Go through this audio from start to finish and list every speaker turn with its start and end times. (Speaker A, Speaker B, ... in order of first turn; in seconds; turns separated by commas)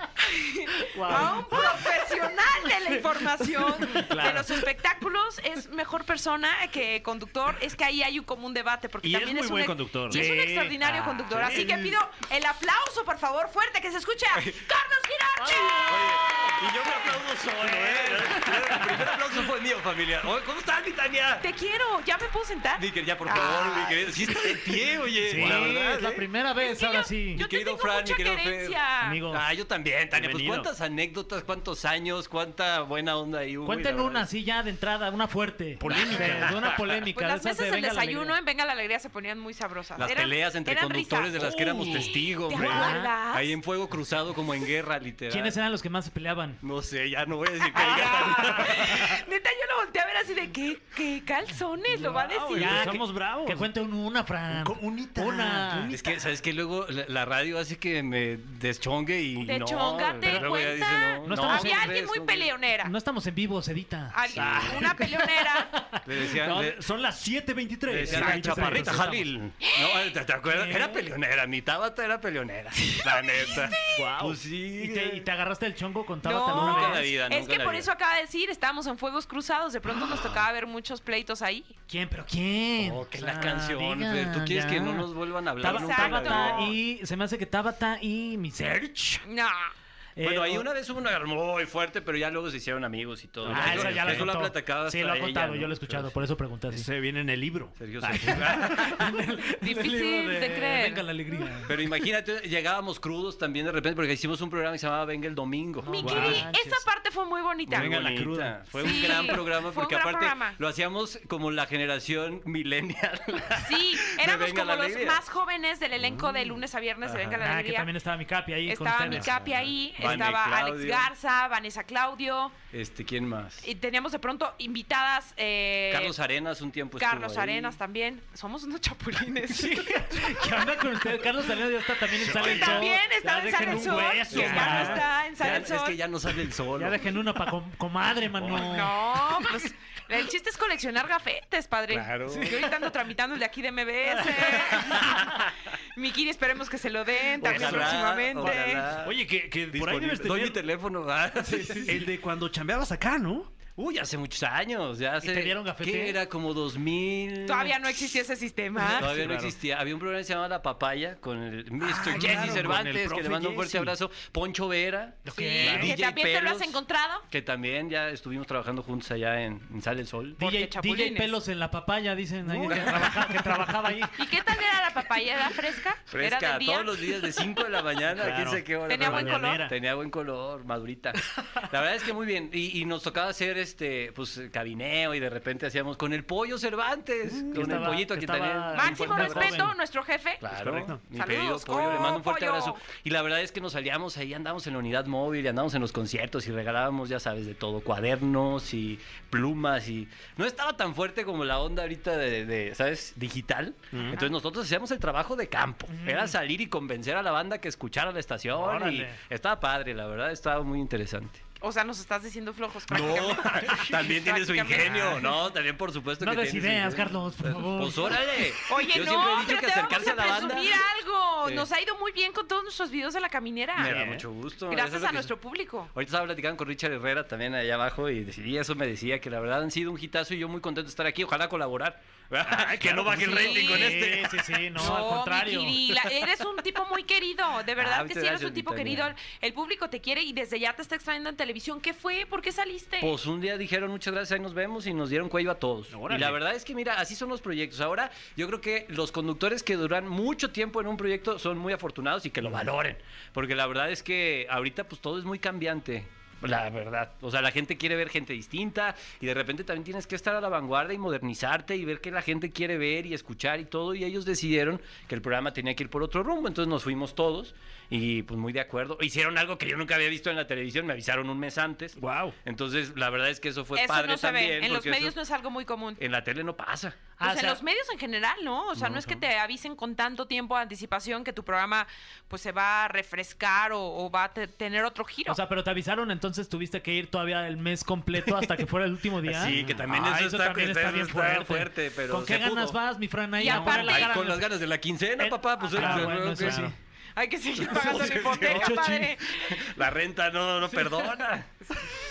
Speaker A: 0.2-16.2, Speaker B: 1.0-1.7, Speaker C: 1.0-1.4, Speaker C: 3.9-4.5, Speaker C: 9.0-12.0, Speaker B: 10.1-10.8, Speaker D: 11.3-11.7, Speaker D: 14.3-14.6, Speaker D: 15.5-21.5, Speaker B: 17.6-18.9, Speaker A: 21.4-24.0, Speaker D: 22.8-26.2, Speaker B: 25.2-27.4, Speaker C: 25.3-25.8, Speaker A: 26.6-29.2, Speaker D: 27.4-34.3, Speaker B: 29.0-29.4, Speaker C: 30.1-30.7, Speaker B: 33.6-38.4, Speaker C: 35.8-36.6, Speaker D: 36.4-37.0, Speaker A: 37.1-43.5, Speaker D: 40.0-45.6, Speaker B: 42.5-43.1, Speaker B: 45.3-46.6, Speaker D: 46.6-49.1, Speaker A: 47.7-52.9, Speaker B: 47.8-48.8, Speaker C: 51.9-53.7, Speaker B: 52.5-55.9, Speaker C: 54.5-56.2, Speaker D: 55.9-62.5, Speaker A: 59.4-62.9, Speaker B: 60.3-62.0, Speaker B: 62.8-65.5, Speaker A: 64.1-65.7, Speaker D: 64.3-64.7, Speaker C: 64.3-69.1, Speaker D: 66.0-66.8, Speaker D: 67.9-75.3, Speaker B: 68.0-69.3, Speaker A: 69.6-70.1, Speaker B: 70.5-71.1, Speaker A: 73.5-74.0, Speaker C: 73.8-74.4, Speaker B: 74.8-77.0, Speaker A: 76.2-81.8, Speaker D: 76.5-77.9, Speaker B: 81.9-85.1, Speaker D: 82.8-86.8, Speaker B: 85.6-89.2, Speaker A: 85.7-86.7, Speaker A: 89.2-89.7, Speaker B: 90.2-90.7, Speaker D: 90.2-96.2, Speaker C: 93.4-94.3, Speaker B: 93.5-96.9, Speaker C: 96.7-98.9, Speaker D: 97.8-99.2, Speaker B: 98.3-101.7, Speaker A: 99.6-101.0, Speaker D: 101.7-106.3, Speaker B: 105.8-106.8, Speaker A: 105.8-107.9, Speaker C: 106.0-106.5, Speaker D: 107.7-115.2, Speaker C: 107.8-109.2, Speaker A: 108.8-110.6, Speaker A: 113.6-117.9, Speaker C: 116.0-116.5, Speaker D: 117.0-117.4, Speaker B: 117.4-119.3, Speaker A: 118.7-122.5, Speaker D: 119.0-121.1, Speaker D: 122.7-123.7, Speaker A: 123.6-126.2, Speaker D: 125.9-127.8, Speaker A: 127.0-130.2, Speaker B: 129.6-135.0, Speaker C: 132.2-135.0, Speaker D: 132.3-132.6, Speaker A: 132.4-136.0, Speaker D: 134.3-137.2, Speaker B: 136.8-138.9, Speaker A: 138.5-145.3, Speaker D: 141.9-142.6, Speaker D: 144.6-145.5, Speaker A: 145.9-148.9, Speaker C: 147.4-148.0, Speaker D: 147.4-149.2, Speaker C: 149.0-150.6, Speaker D: 149.7-152.0, Speaker B: 151.4-151.9, Speaker C: 151.8-153.5, Speaker D: 153.8-158.1, Speaker B: 155.2-156.2, Speaker A: 157.4-159.1, Speaker D: 158.9-166.8, Speaker C: 158.9-159.6, Speaker C: 161.8-163.9, Speaker B: 162.1-162.8, Speaker B: 165.3-165.9, Speaker A: 165.3-167.2, Speaker D: 167.3-170.4, Speaker A: 170.4-171.3, Speaker B: 170.4-174.2, Speaker C: 172.4-173.6, Speaker A: 174.2-177.3, Speaker D: 176.1-189.7, Speaker C: 178.1-179.7, Speaker A: 178.9-179.7, Speaker C: 187.3-188.0, Speaker B: 187.5-189.7, Speaker A: 188.7-190.4, Speaker D: 190.4-211.4, Speaker C: 190.5-191.0, Speaker A: 191.1-192.8, Speaker C: 203.9-204.2, Speaker B: 205.9-206.3, Speaker B: 208.6-209.2, Speaker A: 211.6-215.3, Speaker D: 212.9-220.8, Speaker B: 216.2-218.4, Speaker A: 218.7-224.1, Speaker D: 223.8-225.3, Speaker C: 223.8-224.2, Speaker A: 224.7-225.9, Speaker D: 225.9-235.0, Speaker C: 232.4-233.8, Speaker B: 233.1-235.8, Speaker A: 233.3-233.9, Speaker A: 234.8-243.2, Speaker D: 237.8-239.1, Speaker D: 243.0-275.2, Speaker C: 245.9-246.4, Speaker C: 272.0-272.4, Speaker A: 273.8-276.0, Speaker D: 276.0-277.1, Speaker B: 277.2-277.6, Speaker A: 277.2-285.4, Speaker D: 278.8-279.2, Speaker B: 285.3-294.4, Speaker D: 288.2-288.6, Speaker D: 289.2-292.8, Speaker C: 289.5-289.8, Speaker A: 293.4-294.2, Speaker D: 293.5-296.7, Speaker B: 295.2-296.8, Speaker C: 295.8-296.7, Speaker A: 297.2-299.6, Speaker D: 297.6-298.8, Speaker C: 297.9-299.1, Speaker D: 299.4-301.5